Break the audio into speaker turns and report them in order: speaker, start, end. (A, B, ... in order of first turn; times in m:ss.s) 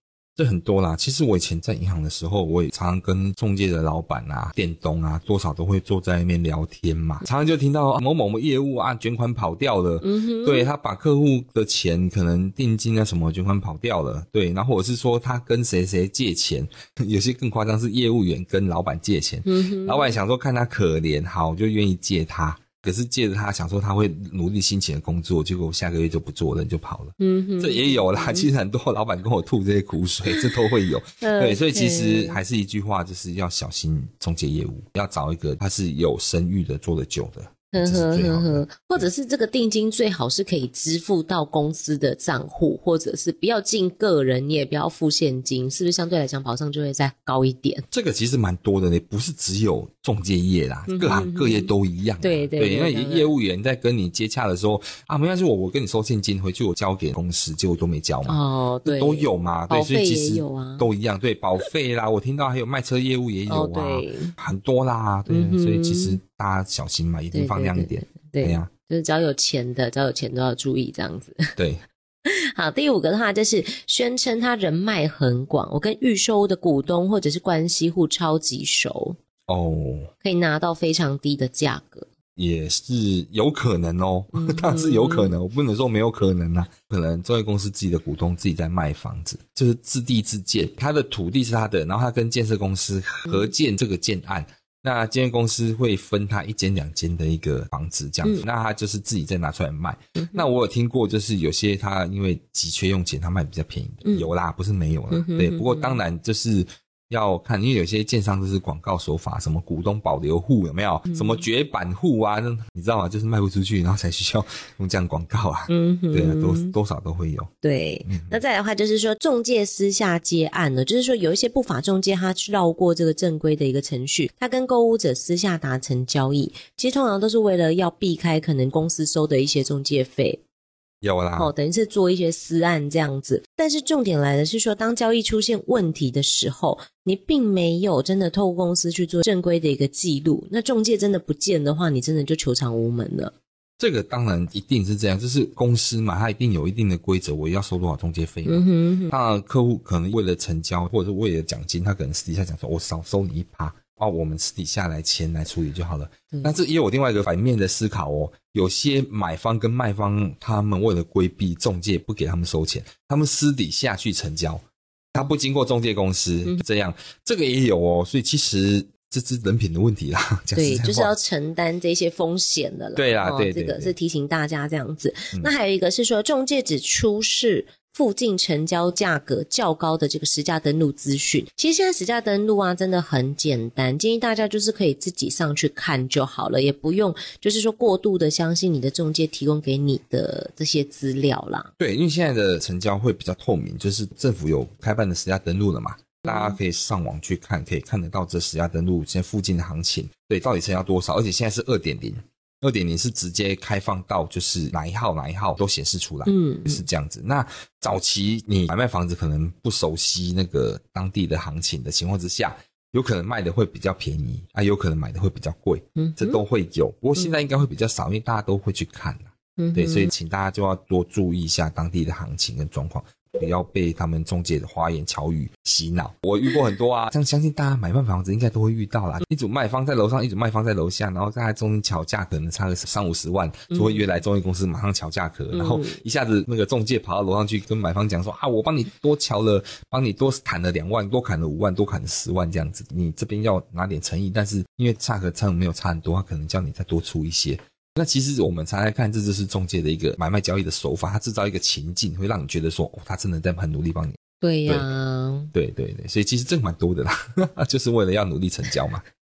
0:00.4-0:39.1 A
0:10.0-0:10.7 B
0:19.5-0:20.2 B
0:27.2-0:28.5 B
0:31.2-0:32.4 B
0:37.7-0:47.8 B
0:47.9-1:08.7 A
0:50.9-0:51.7 B
0:52.2-0:53.3 B
0:58.3-1:00.9 B
1:03.5-1:04.3 B
1:05.3-1:06.2 B
1:07.3-1:11.5 B
1:11.6-1:11.8 A
1:12.3-1:19.2 B
1:19.5-1:20.1 A
1:20.2-1:22.1 B
1:22.4-1:57.5 A
1:24.3-1:25.3 B
1:40.2-1:40.5 B
1:45.1-1:46.0 B
1:51.1-1:51.4 B
1:55.7-1:56.7 B
1:57.6-2:10.4 B
1:58.1-1:58.4 A
2:11.0-2:11.5 A
2:11.4-2:23.3 B
2:23.8-2:44.6 A
2:28.5-2:29.1 B
2:45.1-2:51.1 A
2:50.6-3:11.7 B
2:53.0-2:53.9 A
3:11.8-4:14.9 A
3:16.2-3:16.6 B
3:26.3-3:26.8 B
3:36.0-3:36.4 B
3:39.6-3:40.1 B
3:53.7-3:54.0 B
3:55.5-3:56.0 B
4:14.4-4:15.5 B
4:15.5-4:19.0 A